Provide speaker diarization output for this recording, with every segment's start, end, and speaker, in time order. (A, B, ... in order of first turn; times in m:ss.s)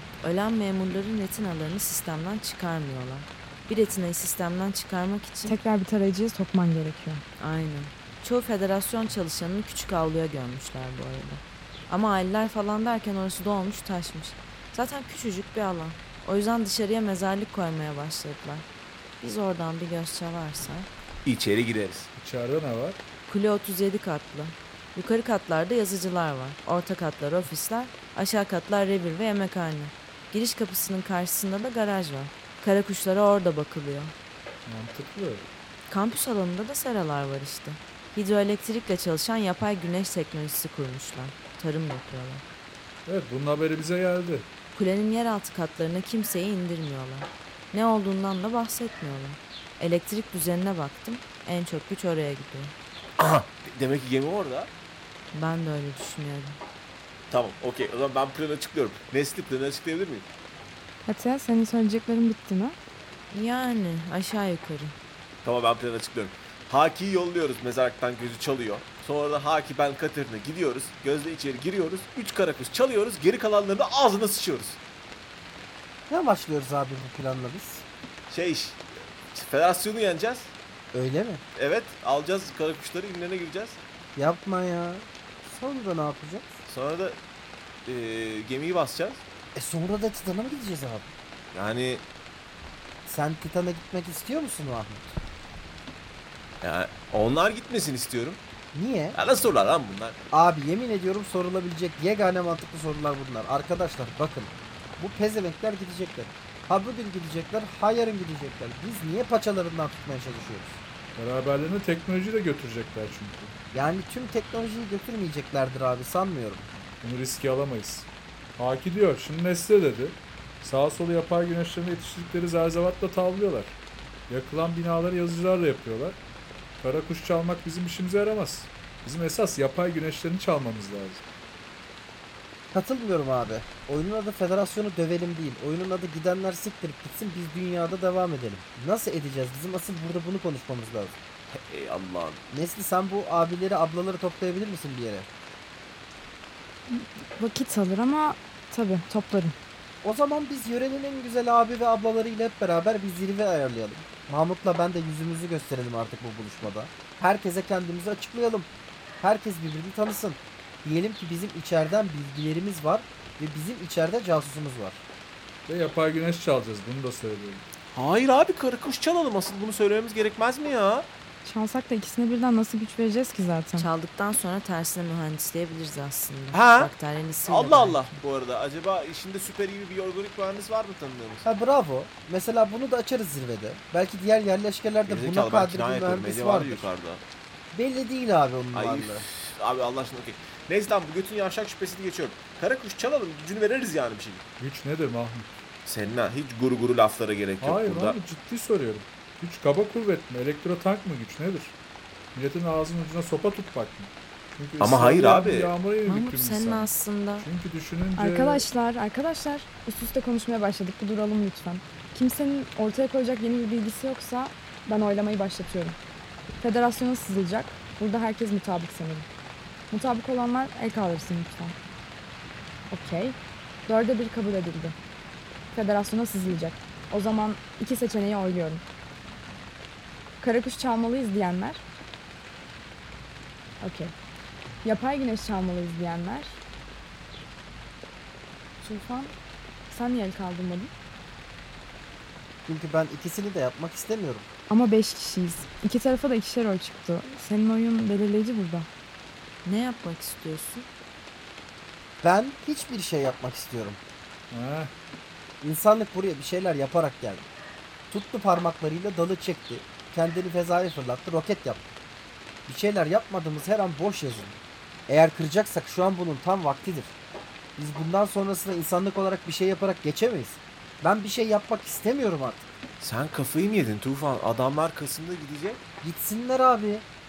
0:00.2-0:05.6 A
0:05.4-0:07.2 B
0:07.4-0:18.7 A
0:19.2-0:20.9 A
0:21.3-0:22.1 C
0:22.2-0:23.0 D
0:23.3-0:34.1 A
0:34.7-0:35.5 D
0:35.9-0:42.5 A
0:43.1-0:44.5 D
0:44.8-0:52.7 A
0:53.2-0:54.7 C
0:55.3-0:56.6 A
0:57.3-1:00.3 C
1:01.1-1:02.8 B
1:03.3-1:05.0 A
1:05.4-1:14.8 C
1:16.1-1:17.8 E
1:18.3-1:20.5 C
1:20.9-1:21.4 E
1:21.6-1:23.8 C
1:24.2-1:26.6 E
1:26.7-1:27.2 C
1:27.9-1:29.2 C
1:29.6-1:31.1 E
1:31.5-1:32.1 C
1:33.1-1:35.2 E
1:36.6-1:38.4 C
1:38.7-1:39.2 E
1:39.2-1:40.2 C
1:40.3-1:50.8 E
1:51.2-1:53.5 D
1:53.7-1:56.7 E
1:57.0-2:06.2 D
2:06.8-2:11.2 D
2:12.7-2:21.2 E
2:21.5-2:22.4 C
2:22.5-2:25.3 E
2:26.9-2:29.6 B
2:30.0-2:38.7 E
2:39.2-2:45.0 E
2:45.7-2:47.6 D
2:47.9-2:51.1 C
2:51.4-2:53.9 B
2:53.8-2:58.2 A
2:56.5-2:56.9 C
2:57.5-3:01.4 C
3:01.4-3:06.9 E
3:05.1-3:07.2 C
3:07.7-3:09.2 E
3:08.8-3:14.4 C
3:14.6-3:15.5 D
3:15.8-3:18.2 C
3:17.6-3:21.8 D
3:22.4-3:28.7 D
3:24.8-3:25.7 C
3:26.0-3:27.5 A
3:28.2-3:36.0 B
3:36.6-3:39.3 B
3:39.9-3:41.8 B
3:42.9-3:45.0 B
3:45.7-3:48.8 B
3:50.4-3:51.8 B
3:53.8-3:54.1 B
3:54.8-3:56.6 B
3:58.8-3:59.3 B
3:59.9-4:00.9 B
4:02.6-4:04.5 E
4:04.7-4:08.9 B
4:09.6-4:10.9 A
4:12.2-4:14.0 E
4:14.5-4:14.9 D
4:15.6-4:17.5 E
4:18.1-4:22.0 E
4:22.7-4:27.2 E
4:27.8-4:32.7 E
4:33.0-4:35.8 C
4:36.0-4:37.1 E